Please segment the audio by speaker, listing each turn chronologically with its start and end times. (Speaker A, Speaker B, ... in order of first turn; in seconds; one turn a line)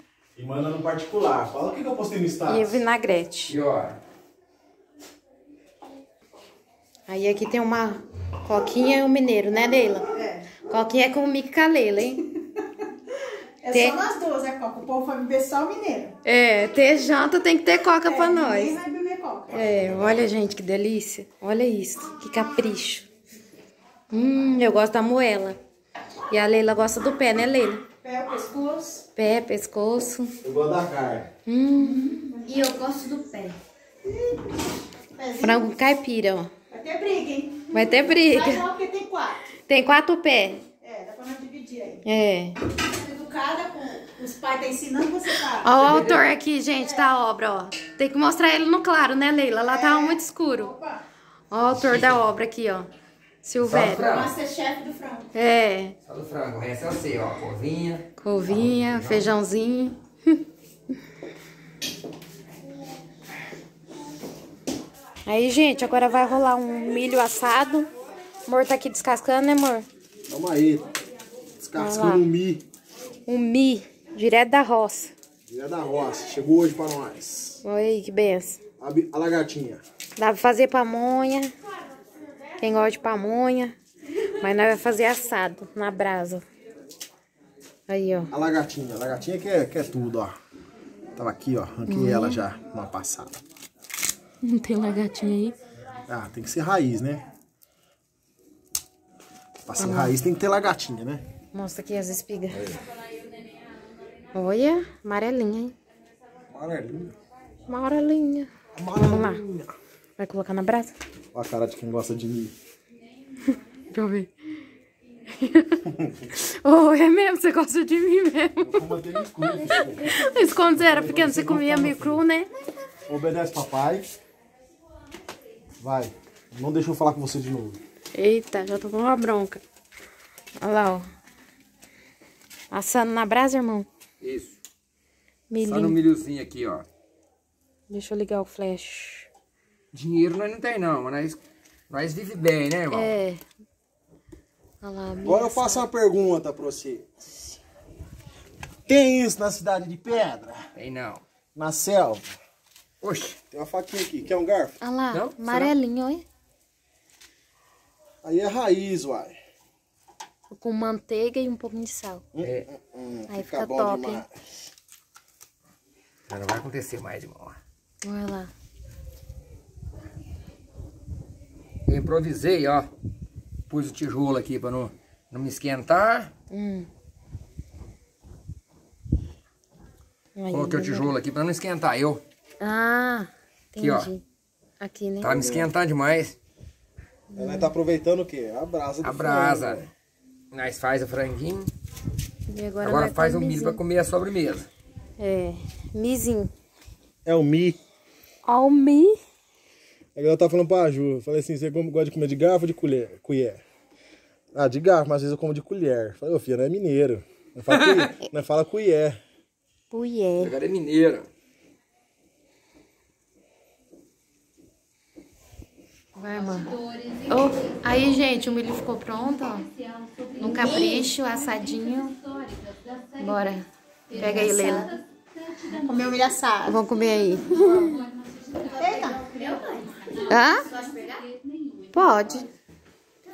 Speaker A: 0.4-2.8
Speaker B: 2.5-3.6
Speaker C: 3.5-4.0
Speaker B: 7.1-10.1
Speaker D: 10.1-10.5
Speaker B: 10.7-12.3
Speaker D: 13.6-16.1
Speaker B: 13.7-14.0
Speaker B: 16.2-18.8
Speaker D: 18.0-19.5
Speaker B: 19.5-23.1
Speaker A: 19.5-20.2
Speaker B: 24.1-25.6
Speaker B: 26.3-27.8
Speaker D: 28.0-29.1
Speaker B: 29.2-30.3
Speaker A: 30.4-31.3
Speaker B: 31.5-32.1
Speaker D: 31.8-32.4
Speaker E: 32.3-33.6
Speaker D: 34.0-34.4
Speaker D: 35.1-35.7
Speaker B: 35.4-36.5
Speaker D: 36.7-39.5
Speaker B: 37.7-38.7
Speaker B: 39.7-40.6
Speaker D: 40.8-42.0
Speaker B: 42.0-42.6
Speaker D: 42.8-45.8
Speaker B: 45.6-50.7
Speaker C: 45.8-46.3
Speaker D: 49.7-51.0
Speaker B: 51.5-52.9
Speaker C: 51.7-52.2
Speaker B: 53.4-54.1
Speaker C: 53.6-54.3
Speaker D: 54.0-55.3
Speaker B: 55.3-56.0
Speaker C: 56.0-59.3
Speaker B: 58.2-60.4
Speaker B: 65.3-67.9
Speaker B: 68.5-69.9
Speaker A: 70.3-70.9
Speaker A: 71.6-72.6
Speaker B: 71.8-72.3
Speaker B: 73.3-75.1
Speaker A: 75.5-77.6
Speaker B: 77.6-78.6
Speaker A: 78.8-79.8
Speaker B: 80.2-81.5
Speaker B: 82.6-83.8
Speaker B: 84.4-86.4
Speaker B: 87.9-88.3
Speaker A: 88.3-90.4
Speaker A: 91.2-93.4
Speaker B: 91.9-92.4
Speaker B: 94.4-95.5
Speaker A: 96.1-97.2
Speaker A: 99.7-101.2
Speaker B: 99.8-100.2
Speaker B: 101.5-102.7
Speaker A: 102.5-102.8
Speaker B: 104.3-105.7
Speaker A: 106.5-107.1
Speaker B: 107.7-109.4
Speaker A: 108.8-109.7
Speaker B: 110.2-110.9
Speaker A: 111.3-112.5
Speaker B: 113.9-114.3
Speaker B: 115.3-118.8
Speaker A: 118.6-122.2
Speaker B: 119.5-122.5
Speaker A: 123.1-124.1
Speaker A: 125.8-127.8
Speaker B: 128.2-129.6
Speaker B: 130.6-131.0
Speaker B: 132.7-133.9
Speaker C: 134.2-134.6
Speaker B: 135.5-136.0
Speaker C: 135.6-136.9
Speaker B: 137.9-139.3
Speaker C: 139.9-143.2
Speaker B: 142.9-143.4
Speaker B: 144.8-145.8
Speaker A: 145.2-147.1
Speaker A: 148.9-150.7
Speaker C: 150.8-151.2
Speaker A: 151.6-152.3
Speaker C: 153.0-153.4
Speaker A: 153.5-154.8
Speaker B: 154.8-156.3
Speaker C: 155.1-155.8
Speaker A: 158.2-159.4
Speaker B: 160.5-162.2
Speaker A: 162.3-164.3
Speaker C: 162.4-162.7
Speaker B: 163.3-164.3
Speaker C: 166.3-167.6
Speaker B: 168.0-168.5
Speaker C: 171.9-172.9
Speaker C: 173.7-176.3
Speaker B: 176.5-176.9
Speaker B: 180.4-181.1
Speaker C: 180.5-182.2
Speaker B: 182.6-184.2
Speaker C: 183.8-184.1
Speaker B: 184.8-185.3
Speaker C: 185.2-186.4
Speaker A: 185.2-185.7
Speaker B: 187.3-187.8
Speaker A: 187.4-189.9
Speaker C: 189.0-189.9
Speaker C: 190.5-191.7
Speaker B: 192.5-193.8
Speaker C: 192.8-194.7
Speaker B: 195.2-196.5
Speaker A: 197.2-197.8
Speaker B: 198.4-199.2
Speaker A: 200.2-203.6
Speaker A: 204.5-209.2
Speaker C: 207.7-208.1
Speaker B: 209.9-210.6
Speaker C: 210.4-211.3
Speaker B: 216.2-219.7
Speaker B: 220.4-222.2
Speaker B: 223.2-224.9
Speaker D: 224.4-224.8
Speaker D: 225.6-226.8
Speaker B: 226.7-228.0
Speaker D: 228.7-229.6
Speaker E: 229.2-230.2
Speaker B: 230.2-230.7
Speaker E: 230.7-231.2
Speaker B: 231.9-232.5